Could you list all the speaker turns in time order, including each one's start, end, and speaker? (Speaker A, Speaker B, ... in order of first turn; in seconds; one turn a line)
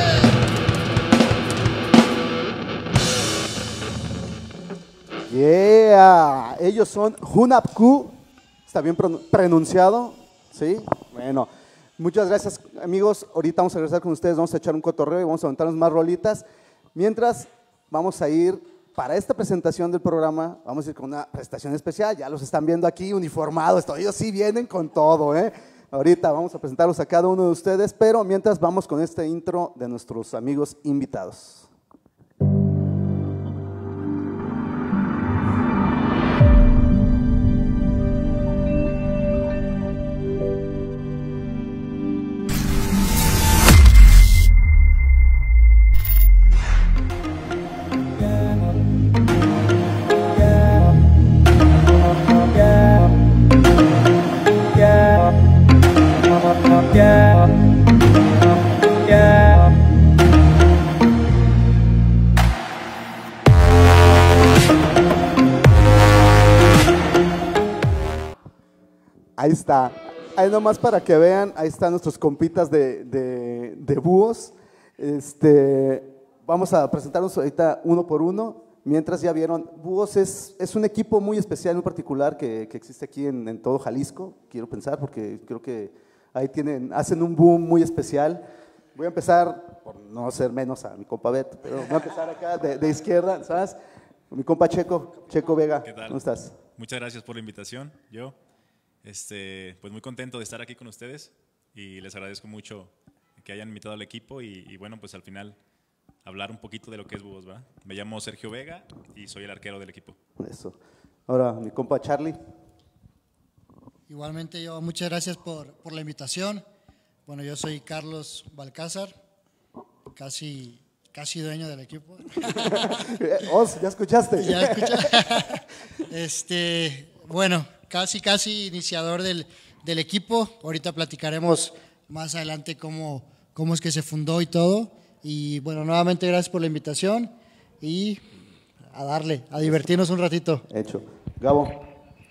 Speaker A: 5.3-31.7
Speaker A: 69.4-93.8
Speaker A: 94.3-96.5
Speaker B: 95.8-96.2
Speaker B: 96.7-98.3
Speaker B: 99.0-105.6
Speaker B: 106.2-110.2
Speaker A: 110.4-112.4
Speaker C: 114.1-116.6
Speaker C: 117.2-119.1
Speaker C: 120.1-123.0
Speaker A: 122.5-125.2
Speaker C: 124.4-138.2
Speaker C: 138.9-140.6
Speaker A: 140.7-141.8